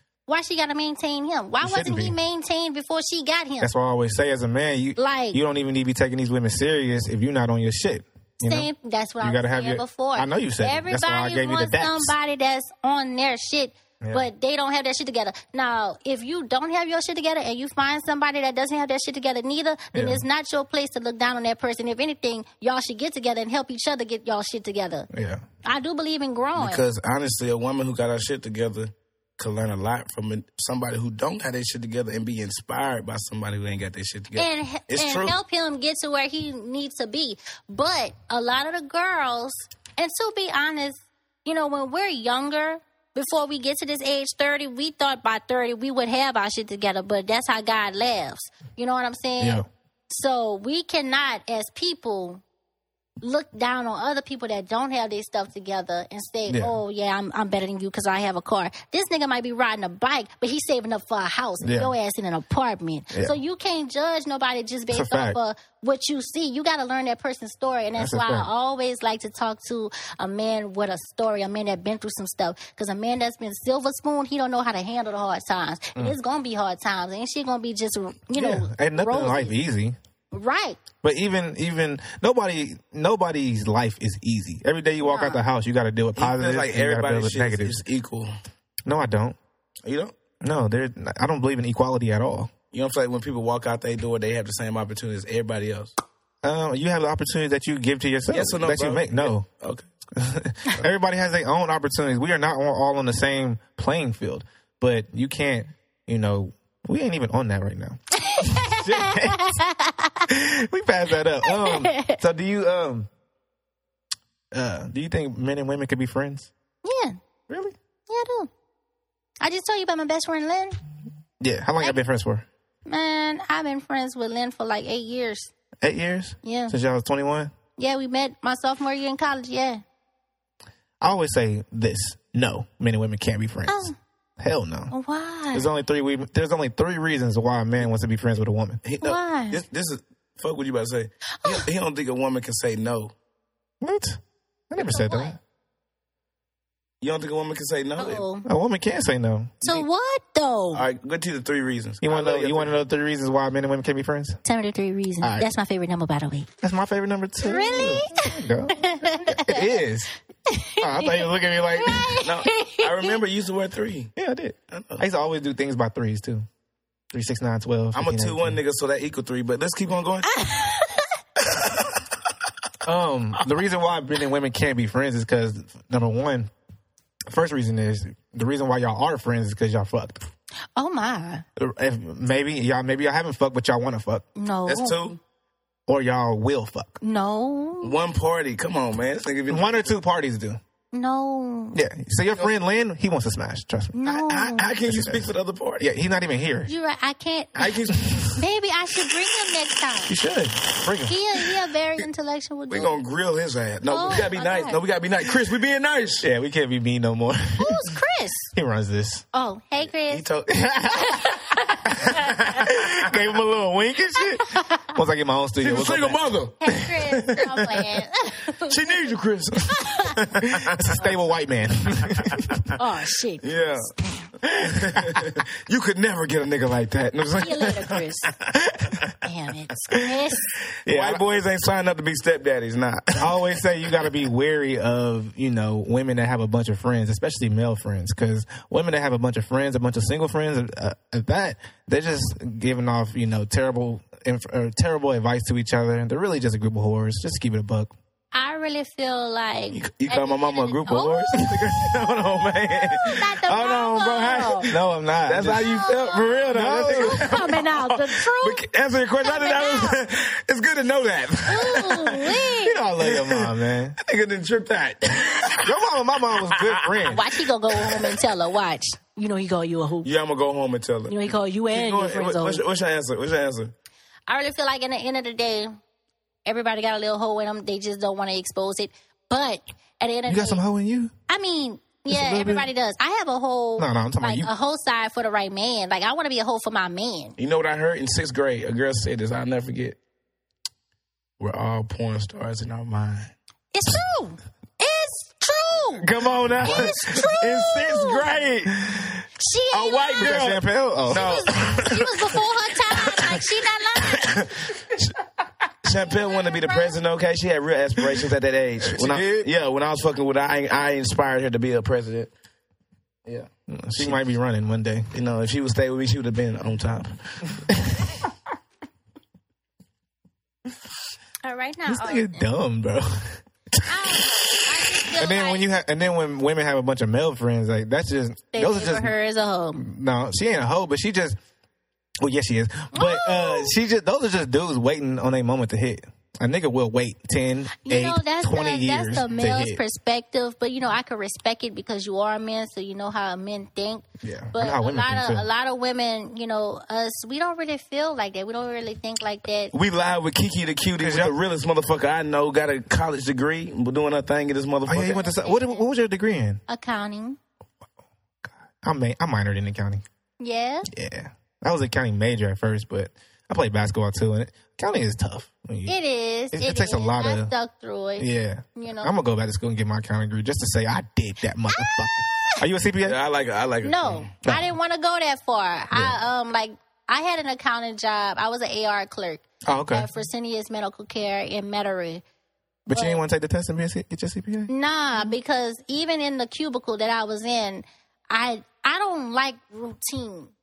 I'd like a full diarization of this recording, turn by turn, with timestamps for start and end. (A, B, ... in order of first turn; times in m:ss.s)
0:00.3-0:03.7 A
0:01.6-0:02.2 B
0:03.6-0:12.1 B
0:05.0-0:05.4 A
0:08.4-0:25.1 A
0:19.9-0:20.2 B
0:25.1-0:25.4 B
0:25.6-0:26.8 A
0:26.6-0:35.4 C
0:34.4-0:52.4 A
0:49.4-0:49.6 B
0:53.2-1:19.5 A
0:56.5-0:56.7 B
1:01.6-1:01.9 B
1:04.9-1:05.4 B
1:08.0-1:08.5 B
1:18.3-1:19.9 B
1:20.3-1:20.8 A
1:21.0-1:27.8 B
1:25.0-1:25.4 A
1:26.2-1:28.3 C
1:28.8-1:29.4 B
1:29.8-1:30.1 C
1:30.4-1:32.5 B
1:32.7-1:35.9 C
1:36.4-1:39.4 B
1:38.3-1:40.1 C
1:40.1-1:49.5 B
1:48.2-1:50.2 A
1:50.3-1:53.1 B
1:51.4-1:52.2 A
1:54.5-1:56.5 B
1:56.8-1:57.2 A
1:57.5-1:57.7 B
1:58.1-1:58.5 A
1:59.4-2:00.8 A
2:01.4-2:02.4 B
2:02.9-2:05.5 A
2:05.8-2:07.5 B
2:06.4-2:06.7 A
2:07.8-2:09.8 A
2:11.0-2:14.9 B
2:13.7-2:13.9 A
2:14.9-2:15.7 A
2:15.5-2:18.8 B
2:18.8-2:23.1 C
2:19.0-2:19.6 A
2:21.4-2:21.6 A
2:23.8-2:25.4 B
2:24.8-2:25.4 A
2:27.0-2:28.2 C
2:28.0-2:28.5 A
2:28.4-2:29.6 B
2:29.6-2:30.8 A
2:30.7-2:32.8 C
2:32.0-2:34.4 B
2:34.4-2:36.5 A
2:35.2-2:35.5 B
2:36.6-2:40.1 B
2:37.4-2:39.8 A
2:37.6-2:38.0 C
2:40.5-2:43.2 A
2:40.8-2:42.2 B
2:42.2-2:44.1 C
2:44.2-2:46.5 B
2:44.7-2:45.0 C
2:47.1-2:48.6 B
2:47.9-2:50.4 C
2:50.3-2:51.1 A
2:52.8-2:56.5 B
2:57.3-3:00.2 B
3:00.8-3:01.4 A
3:01.6-3:04.2 B
3:04.4-3:05.2 A
3:04.6-3:05.2 C
3:05.9-3:07.0 B
3:07.0-3:08.0 A
3:07.8-3:09.9 C
3:09.5-3:10.6 B
3:10.9-3:11.8 A
3:11.7-3:16.7 B
3:13.9-3:14.7 A
3:14.4-3:15.9 C
3:16.7-3:17.8 A
3:17.6-3:18.4 C
3:17.9-3:18.3 B
3:18.4-3:20.1 A
3:20.1-3:21.2 B
3:21.1-3:23.0 A
3:22.7-3:26.2 C
3:23.9-3:24.8 A
3:26.2-3:27.8 B
3:27.6-3:28.5 A
3:28.5-3:29.2 B
3:29.3-3:30.2 A
3:30.1-3:30.7 C
3:30.5-3:31.2 B
3:31.0-3:32.6 A
3:31.8-3:36.3 B
3:34.4-3:34.8 A
3:35.6-3:38.0 C
3:36.6-3:39.1 A
3:38.6-3:41.0 C
3:39.7-3:40.2 A
3:40.4-3:42.6 B
3:42.2-3:42.6 C
3:42.8-3:44.3 A
3:43.4-3:49.1 C
3:45.0-3:45.2 B
3:47.3-3:48.3 A
3:49.2-3:50.4 A
3:50.7-3:53.4 C
3:50.8-3:51.2 B
3:53.2-4:07.9 B
4:08.3-4:11.5 A
4:09.7-4:22.4 C
4:12.8-4:14.7 A
4:14.7-4:15.6 B
4:15.6-4:18.6 A
4:16.5-4:17.6 B
4:19.2-4:20.0 A
4:21.5-4:22.8 A
4:22.6-4:24.0 B
4:23.0-4:25.8 C
4:25.6-4:27.2 B
4:26.3-4:27.2 C
4:27.1-4:30.1 A
4:27.8-4:28.1 C
4:30.0-4:33.7 C
4:31.1-4:32.6 A
4:34.3-4:35.8 A
4:36.4-4:40.6 A
4:40.3-4:41.1 B
4:41.3-4:47.4 A
4:42.1-4:42.7 B
4:43.8-4:44.5 B
4:47.4-4:50.0 C
4:51.4-4:53.3 C
4:53.7-4:56.1 A
4:56.0-4:59.0 C
4:56.6-4:58.3 A
4:59.4-5:00.4 A
4:59.7-5:03.4 C
5:00.2-5:01.5 B
5:01.1-5:04.5 A
5:04.0-5:05.1 C
5:05.8-5:12.3 C
5:06.0-5:07.0 A
5:08.8-5:09.5 B
5:13.2-5:14.2 C
5:13.7-5:15.1 B
5:15.1-5:17.4 C
5:21.4-5:22.4 A
5:21.9-5:23.3 B
5:23.9-5:25.7 A
5:25.1-5:29.1 B
5:28.5-5:29.8 A
5:29.8-5:31.4 B
5:32.2-5:39.8 B
5:32.9-5:33.7 A
5:37.8-5:49.7 A
5:44.2-5:45.4 B
5:49.7-5:55.2 C
5:51.0-5:51.3 B
5:54.9-5:56.6 B
5:55.1-5:55.8 A
5:56.7-5:57.4 A
5:58.4-6:00.0 B
6:00.4-6:00.9 A
6:00.9-6:05.9 B
6:05.8-6:09.1 A
6:06.5-6:07.5 B
6:08.2-6:13.2 B
6:11.7-6:12.6 A
6:13.0-6:14.3 C
6:13.8-6:22.2 A
6:14.4-6:14.7 B
6:15.9-6:16.2 B
6:19.6-6:20.1 B
6:22.9-6:24.7 B
6:22.9-6:23.2 A
6:24.7-6:30.5 A